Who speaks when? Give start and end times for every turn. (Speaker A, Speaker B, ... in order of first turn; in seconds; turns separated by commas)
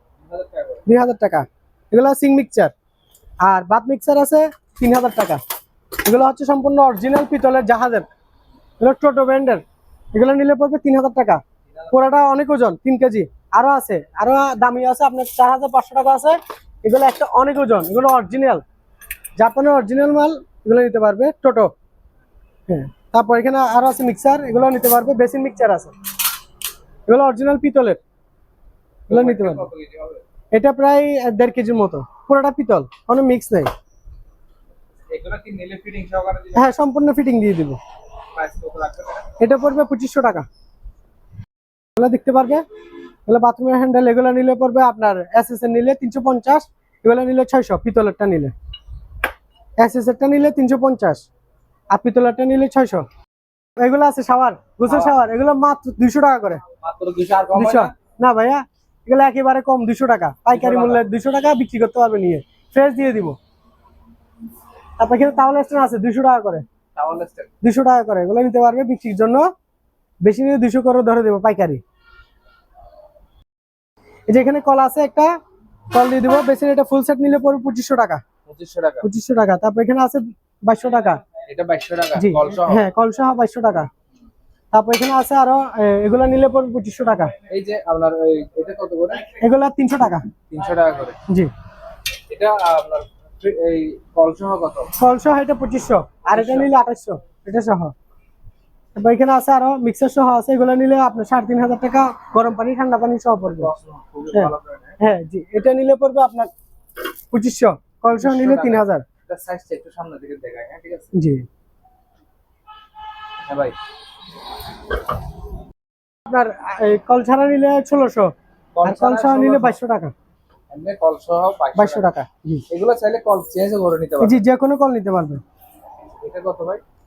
Speaker A: 0.2-0.8, Speaker B: 0.9-2.7, Speaker B: 3.4-5.4, Speaker B: 6.0-8.1, Speaker B: 8.8-9.6, Speaker B: 10.1-18.6, Speaker B: 19.4-21.7, Speaker B: 22.7-25.9, Speaker B: 27.1-28.0, Speaker B: 29.1-29.7, Speaker A: 29.1-30.2, Speaker B: 30.5-33.7, Speaker A: 35.1-36.8, Speaker B: 36.5-37.8, Speaker A: 38.3-39.3, Speaker B: 39.4-40.5, Speaker B: 42.0-42.6, Speaker B: 43.3-48.5, Speaker B: 49.8-51.2, Speaker B: 51.9-53.0, Speaker B: 53.8-56.6, Speaker A: 54.9-55.2, Speaker A: 56.8-57.9, Speaker B: 57.5-63.4, Speaker A: 60.5-61.0, Speaker B: 65.0-66.7, Speaker A: 67.0-67.5, Speaker B: 67.6-69.5, Speaker B: 70.2-71.8, Speaker B: 74.3-75.3, Speaker B: 75.9-78.2, Speaker A: 78.5-79.1, Speaker B: 79.0-81.2, Speaker A: 81.5-82.9, Speaker B: 82.2-83.9, Speaker B: 84.7-87.3, Speaker A: 87.5-89.3, Speaker B: 89.4-90.2, Speaker A: 90.5-91.2, Speaker A: 92.3-94.9, Speaker B: 95.0-97.9, Speaker A: 96.3-96.7, Speaker B: 99.0-103.7, Speaker A: 103.4-105.0, Speaker B: 104.3-106.5, Speaker B: 107.3-109.0, Speaker A: 108.2-111.1, Speaker B: 111.1-111.5, Speaker A: 113.5-113.8, Speaker B: 116.3-118.3, Speaker A: 118.8-119.8, Speaker B: 118.8-120.1, Speaker A: 120.7-122.1, Speaker B: 121.8-122.7, Speaker A: 122.7-124.4, Speaker B: 124.2-125.4, Speaker A: 126.2-126.8